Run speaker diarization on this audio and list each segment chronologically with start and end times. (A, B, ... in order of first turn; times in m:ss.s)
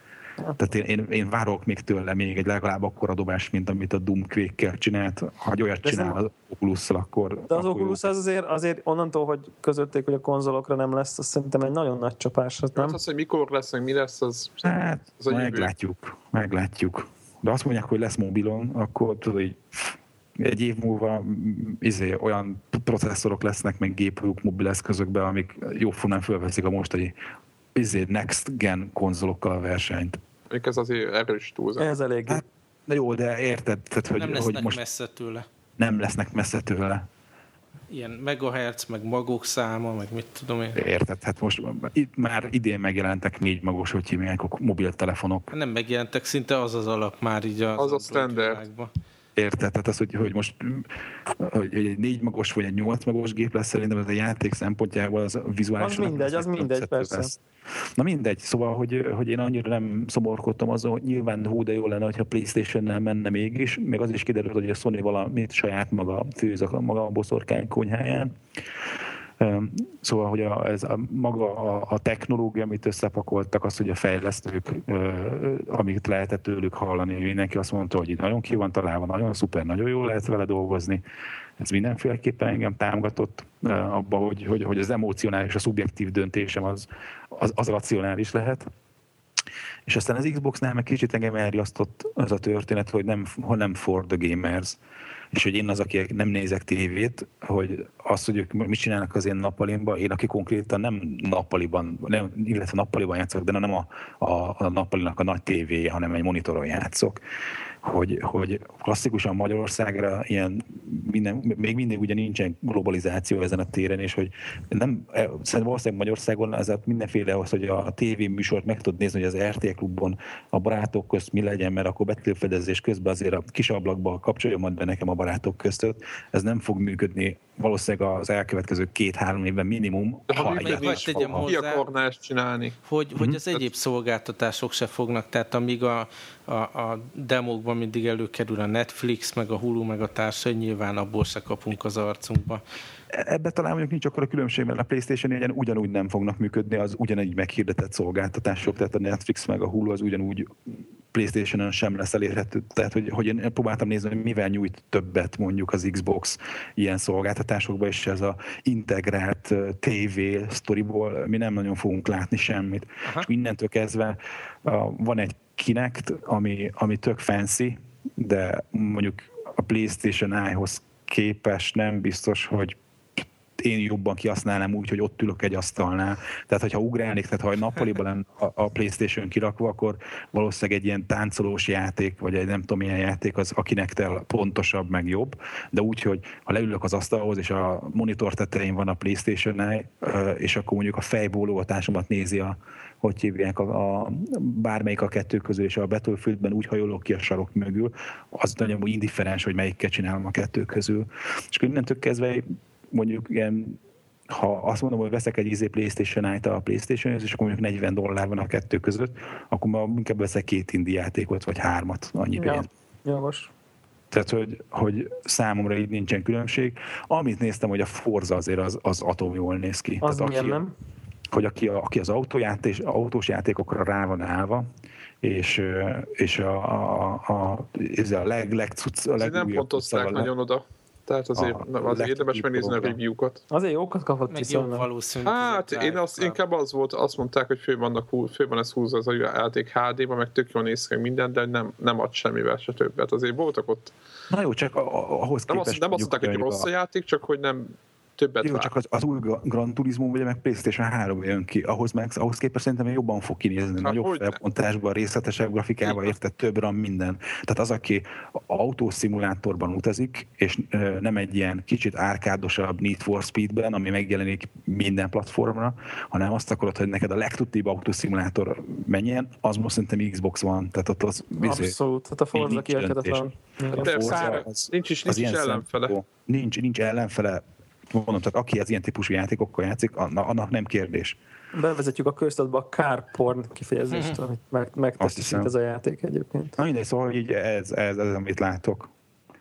0:00.6-0:08.0 A
0:05.8-0:06.2 B
0:07.5-0:13.0 B
0:12.8-0:15.7 C
0:14.6-0:27.1 A
0:27.8-0:30.2 A
0:30.5-0:31.9 C
0:31.8-0:32.4 B
0:32.3-0:34.8 A
0:34.2-0:35.5 D
0:35.8-0:37.1 A
0:37.9-0:40.8 D
0:40.7-0:45.5 A
0:45.5-0:48.9 D
0:47.8-0:48.6 C
0:49.4-0:57.3 A
0:55.8-0:57.3 B
0:58.0-1:08.4 A
1:09.4-1:21.0 A
1:21.6-1:28.7 A
1:29.9-1:34.8 A
1:35.3-1:47.2 A
1:47.8-2:11.5 A
2:10.3-2:12.8 C
2:10.6-2:11.8 D
2:12.8-2:22.6 D
2:23.1-3:32.7 A
3:32.4-3:33.5 B
3:34.1-3:40.6 A
3:40.0-3:40.7 B
3:41.3-3:44.7 A
3:45.2-3:50.3 A
3:49.2-3:53.4 C
3:51.4-3:53.0 A
3:53.5-3:54.9 B
3:54.3-3:56.4 D
3:55.2-4:03.9 C
4:04.3-4:06.7 A
4:05.5-4:08.7 C
4:08.4-4:31.7 A
4:13.8-4:14.4 C
4:31.4-4:34.4 B
4:32.3-4:33.2 A
4:33.8-4:41.2 A
4:33.8-4:36.0 C
4:41.5-4:46.6 B
4:43.9-4:44.2 D
4:45.0-4:45.5 A
4:46.6-4:48.9 A